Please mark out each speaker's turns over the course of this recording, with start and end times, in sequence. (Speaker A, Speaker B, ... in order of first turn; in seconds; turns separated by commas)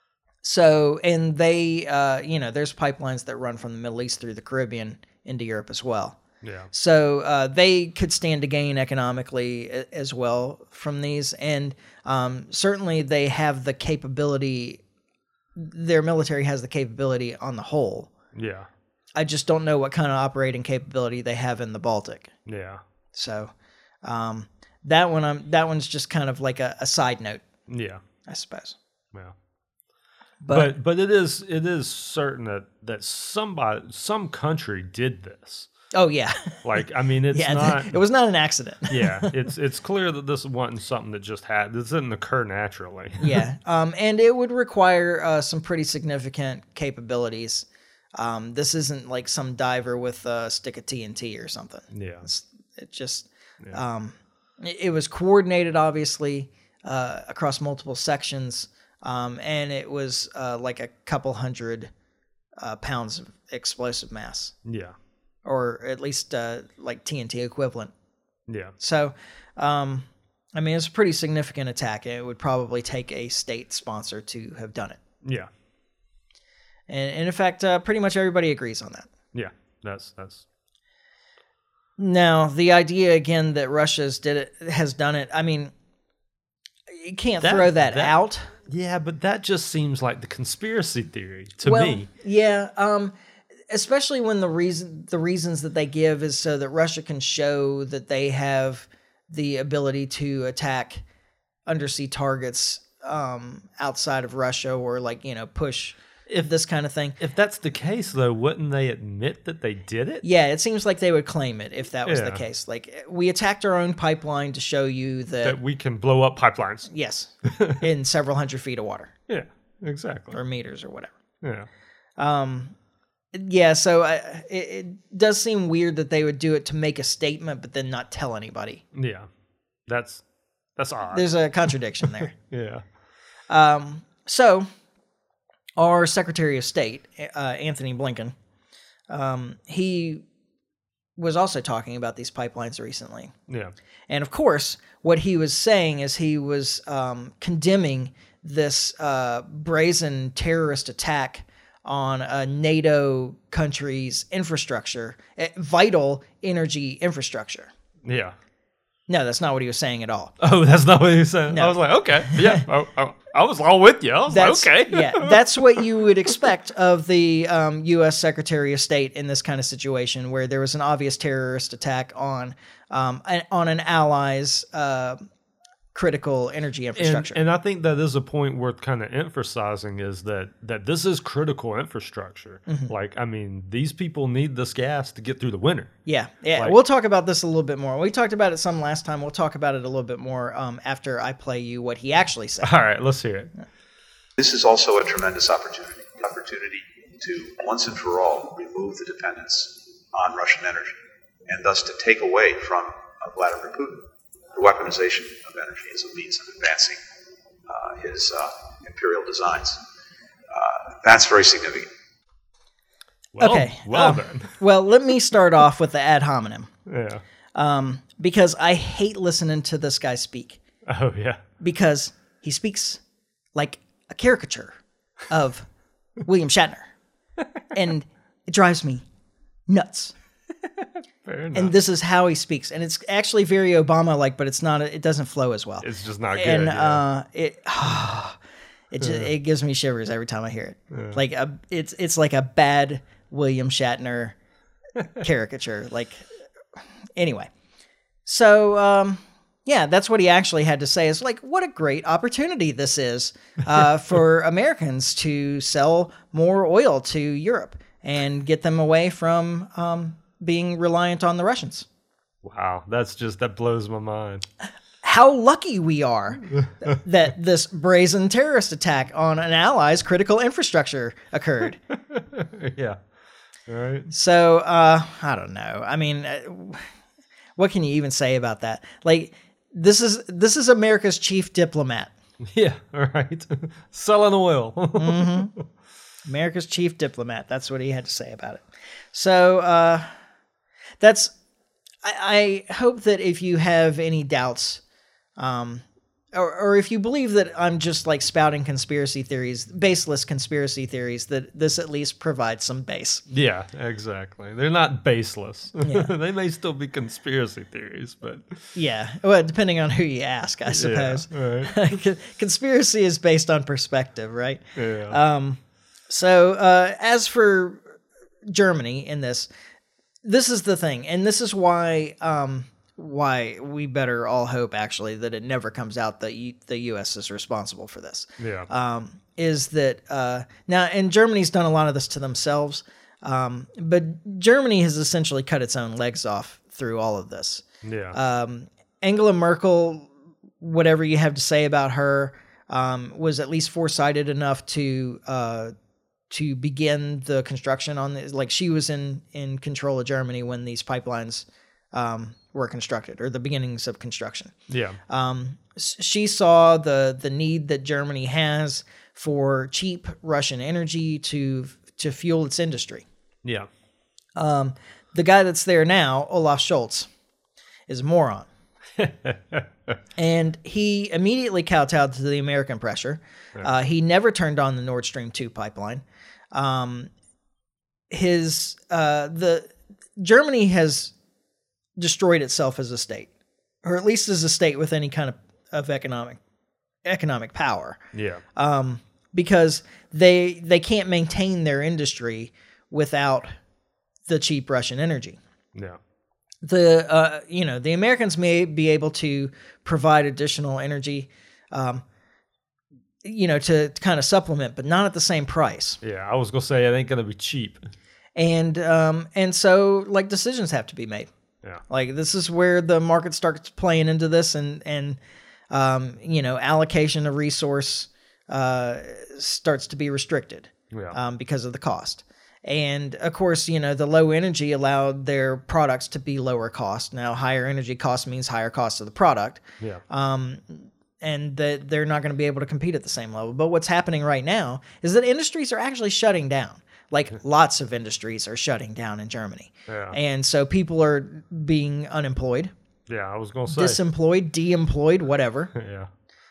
Speaker A: 0.4-6.2, Speaker B: 6.4-6.7, Speaker A: 6.7-14.8, Speaker A: 15.6-18.1, Speaker B: 18.3-18.7, Speaker A: 19.1-22.3, Speaker B: 22.4-22.8, Speaker A: 23.1-23.5, Speaker A: 24.0-27.4, Speaker B: 27.7-28.0, Speaker A: 28.3-28.8, Speaker A: 30.4-30.7, Speaker B: 30.5-35.7, Speaker A: 35.9-36.6, Speaker B: 36.6-38.0, Speaker A: 37.3-39.3, Speaker B: 38.9-43.4, Speaker A: 43.2-61.9, Speaker B: 51.9-52.2, Speaker A: 62.6-64.5, Speaker B: 64.6-64.9, Speaker A: 65.4-67.9, Speaker B: 68.5-68.7, Speaker A: 68.8-75.0, Speaker B: 75.2-75.5, Speaker A: 76.9-79.1, Speaker B: 79.3-80.4, Speaker A: 82.0-85.7, Speaker A: 86.9-88.5, Speaker B: 87.4-88.1, Speaker B: 88.7-92.1, Speaker A: 91.6-93.1, Speaker A: 93.7-101.0, Speaker A: 101.7-107.2, Speaker B: 107.2-110.2, Speaker A: 110.2-115.5, Speaker B: 112.0-112.4, Speaker B: 115.4-116.9, Speaker A: 116.9-119.1, Speaker B: 117.4-117.8, Speaker B: 119.3-120.4, Speaker A: 120.3-121.1, Speaker B: 121.4-121.7, Speaker A: 122.2-122.7, Speaker A: 123.3-128.8, Speaker B: 128.9-129.3, Speaker B: 129.9-130.2, Speaker B: 130.8-131.3, Speaker A: 131.1-132.3, Speaker B: 132.3-132.8, Speaker A: 133.5-134.7, Speaker A: 135.8-138.3, Speaker A: 139.1-140.2, Speaker A: 141.2-143.3, Speaker A: 144.1-157.7, Speaker B: 158.0-158.3, Speaker A: 159.1-160.3, Speaker B: 160.4-165.8, Speaker A: 161.5-162.6, Speaker A: 164.3-175.2, Speaker A: 175.9-177.4, Speaker B: 177.0-186.0, Speaker A: 182.7-182.9, Speaker A: 186.1-192.7, Speaker B: 192.6-193.5, Speaker C: 194.4-207.0, Speaker C: 207.7-209.8, Speaker C: 210.5-211.9, Speaker B: 213.3-214.5, Speaker A: 213.4-216.7, Speaker B: 216.9-217.2, Speaker A: 217.5-220.6, Speaker B: 220.9-221.4, Speaker A: 221.6-223.0, Speaker A: 223.5-224.7, Speaker A: 225.3-225.7, Speaker A: 226.2-226.9, Speaker A: 227.7-229.0, Speaker A: 229.7-230.1, Speaker B: 231.2-231.7, Speaker A: 231.5-238.4, Speaker B: 235.8-237.0, Speaker A: 238.9-244.3, Speaker B: 240.9-241.2, Speaker A: 245.1-246.2, Speaker A: 247.2-247.5, Speaker A: 248.2-261.9, Speaker B: 262.4-264.4, Speaker A: 265.0-271.8, Speaker B: 272.1-273.0, Speaker B: 273.7-274.1, Speaker A: 274.1-276.9, Speaker A: 277.6-282.1, Speaker B: 282.5-285.4, Speaker A: 284.9-285.5, Speaker A: 286.2-290.1, Speaker A: 291.0-291.3, Speaker A: 292.0-294.8, Speaker A: 295.4-303.2, Speaker B: 303.3-308.6, Speaker A: 305.8-306.1, Speaker A: 308.7-317.9, Speaker B: 310.7-311.7, Speaker B: 314.8-315.2, Speaker A: 318.5-319.5, Speaker A: 320.2-345.7, Speaker B: 328.4-328.7, Speaker B: 337.8-338.1, Speaker A: 346.3-354.5, Speaker B: 354.7-355.0, Speaker A: 355.1-363.0, Speaker A: 364.4-367.1, Speaker A: 367.9-368.5, Speaker B: 369.0-369.9, Speaker A: 370.2-377.1, Speaker A: 378.1-381.1, Speaker A: 382.0-383.3, Speaker A: 383.8-386.4, Speaker A: 387.0-388.0, Speaker B: 388.1-388.4, Speaker A: 388.6-393.5, Speaker A: 394.3-395.4, Speaker A: 396.6-402.0, Speaker A: 403.2-406.0, Speaker B: 406.0-407.8, Speaker A: 408.4-411.3, Speaker A: 411.9-415.2, Speaker A: 415.7-442.7, Speaker B: 420.9-421.2, Speaker B: 439.9-440.2, Speaker B: 443.1-444.0, Speaker A: 443.7-445.7, Speaker B: 445.7-446.1